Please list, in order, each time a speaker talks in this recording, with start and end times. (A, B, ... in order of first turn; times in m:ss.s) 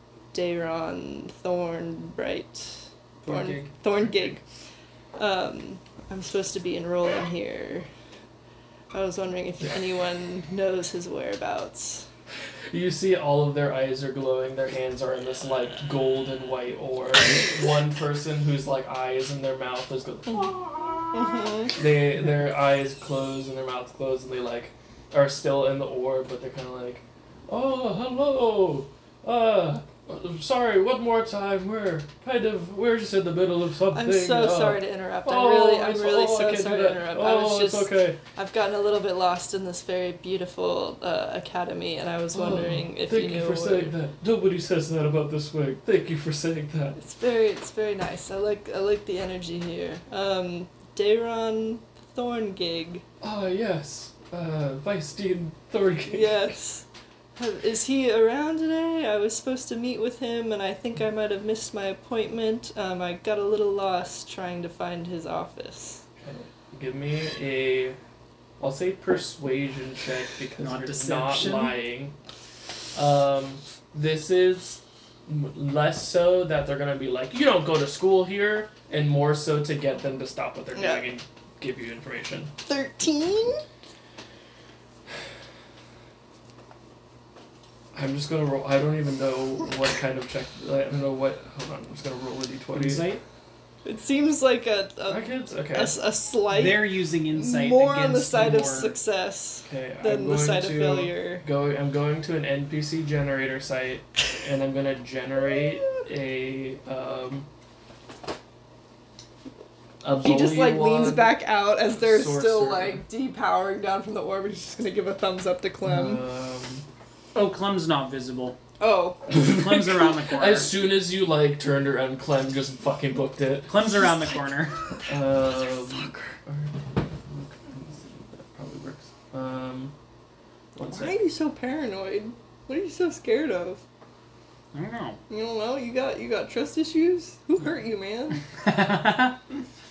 0:00.3-0:04.4 A
0:03.2-0:03.7 B
0:04.0-0:04.4 C
0:05.2-0:07.9 A
0:08.9-0:12.0 A
0:12.7-0:38.2 C
0:21.1-0:21.7 A
0:33.9-0:43.9 A
0:42.3-0:47.0 C
0:47.0-0:53.0 A
0:53.2-0:56.5 C
0:56.1-0:56.8 A
0:57.4-1:06.0 A
1:06.2-1:08.0 C
1:08.6-1:12.1 C
1:10.6-1:11.8 B
1:12.9-1:22.5 C
1:20.7-1:21.1 A
1:22.7-1:23.6 A
1:27.9-1:33.1 C
1:32.7-1:33.2 B
1:33.8-1:41.4 A
1:35.1-1:36.0 C
1:36.5-1:39.0 B
1:39.6-1:47.5 C
1:50.0-1:51.3 C
1:50.2-1:56.2 A
1:52.0-1:53.0 C
1:55.8-1:56.8 C
1:57.3-1:58.6 B
1:58.8-1:59.3 A
1:59.3-2:03.8 C
1:59.3-2:00.8 B
2:03.7-2:04.8 B
2:04.0-2:06.3 A
2:05.1-2:09.9 C
2:10.8-2:11.2 C
2:10.9-2:13.8 A
2:14.7-2:15.2 B
2:15.3-2:18.4 A
2:18.5-2:19.4 B